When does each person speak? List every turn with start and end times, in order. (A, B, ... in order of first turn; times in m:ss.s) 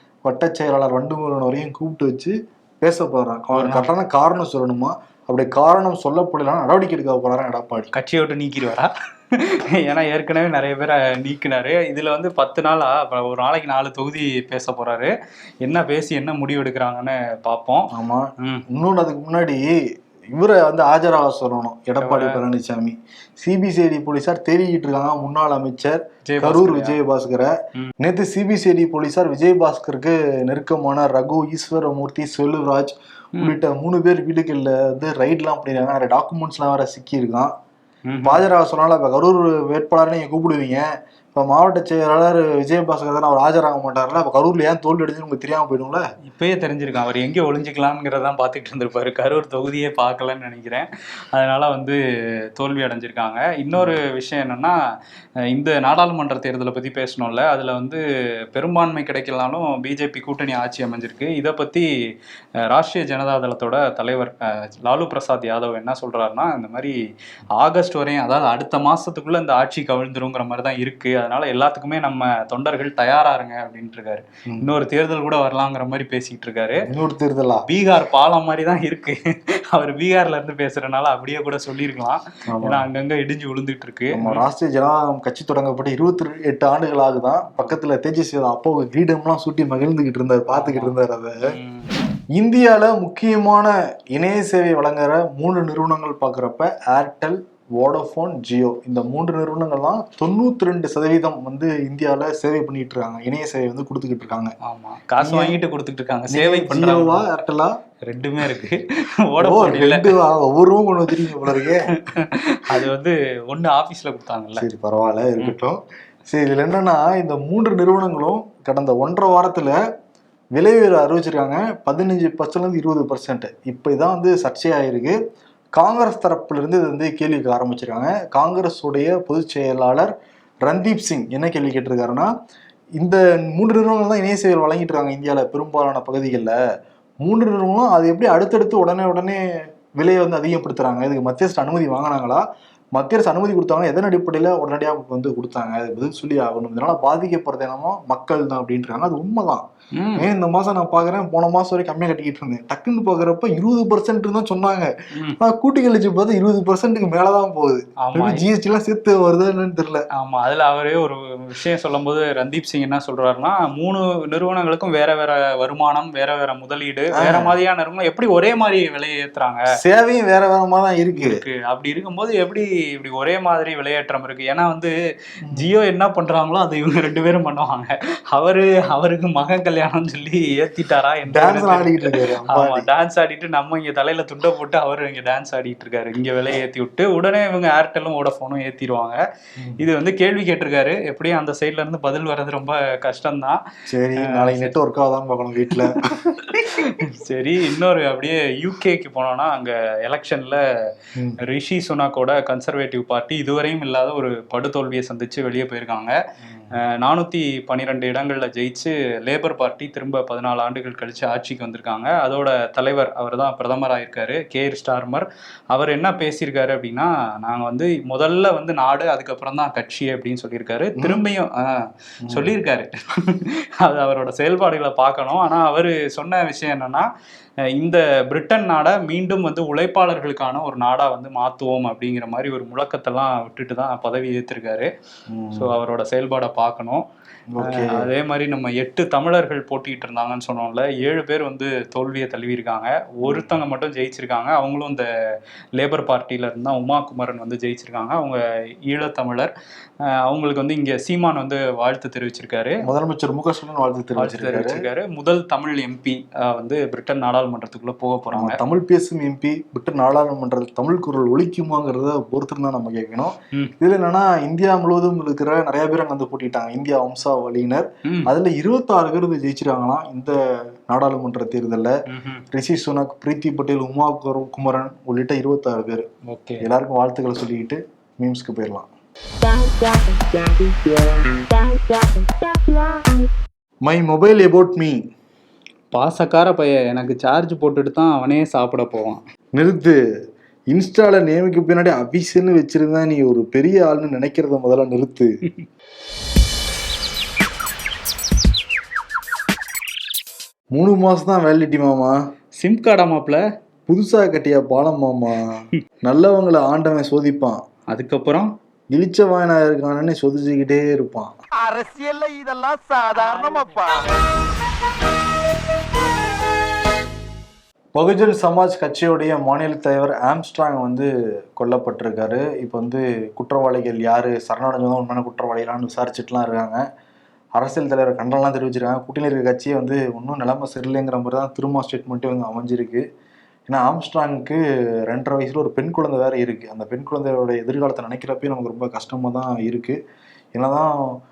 0:00.2-0:07.9 A
0:03.5-0:03.9 B
0:07.9-0:15.1 B
0:15.6-0:17.9 B
0:17.9-0:19.7 A
0:20.3-0:37.5 A
0:22.0-0:22.4 B
0:26.3-0:27.0 B
0:38.1-0:38.4 B
0:38.2-0:46.0 A
0:46.3-0:52.0 B
0:52.6-0:54.8 B
0:55.5-0:58.0 B
0:58.5-1:01.8 B
1:02.7-1:06.9 B
1:07.6-1:16.8 B
1:16.8-1:17.6 A
1:17.7-1:19.2 B
1:19.7-1:24.4 B
1:22.5-1:22.8 A
1:24.1-1:31.4 A
1:30.5-1:30.9 B
1:31.5-1:31.9 B
1:32.4-1:44.5 A
1:44.6-1:47.2 B
1:45.2-1:45.6 A
1:46.3-1:47.7 A
1:48.0-1:50.1 B
1:49.4-1:51.9 A
1:51.2-1:54.6 B
1:54.6-1:59.7 A
2:00.6-2:05.2 A
2:05.8-2:10.1 A
2:10.6-2:12.3 A
2:13.0-2:16.5 A
2:17.2-2:19.4 A
2:20.0-2:29.6 A
2:30.0-2:30.3 B
2:30.2-2:40.0 A
2:38.0-2:38.4 B
2:40.1-2:49.6 B
2:47.2-2:47.5 A
2:49.8-2:51.4 A
2:51.2-2:54.9 B
2:55.5-3:09.2 B
3:01.3-3:02.8 A
3:09.8-3:13.6 B
3:13.9-3:16.0 A
3:14.2-3:14.7 B
3:15.7-3:20.6 B
3:21.4-3:26.1 B
3:26.5-3:26.7 A
3:26.7-3:47.1 B
3:42.2-3:42.5 A
3:47.7-3:54.9 B
3:55.3-3:55.7 A
3:55.6-3:57.0 B
3:57.5-3:58.0 A
3:57.6-4:05.1 B
4:03.2-4:03.5 A
4:05.8-4:09.5 B
4:10.0-4:12.8 B
4:12.8-4:14.8 A
4:14.2-4:18.6 B
4:18.3-4:30.3 A
4:30.9-4:31.9 A
4:32.1-4:32.4 B
4:32.5-4:36.0 A
4:36.3-4:36.6 B
4:36.6-4:38.9 A
4:39.6-4:40.2 C
4:41.6-4:42.1 C
4:43.8-4:45.0 A
4:45.9-4:49.2 B
4:49.6-4:50.0 A
4:50.7-4:55.3 A
5:00.7-5:02.1 A
5:02.6-5:03.4 B
5:03.9-5:07.6 A
5:07.9-5:08.5 B
5:08.9-5:11.3 A
5:11.6-5:13.7 C
5:18.0-5:26.8 A
5:27.6-5:33.0 A
5:33.7-5:40.0 A
5:40.5-5:41.0 A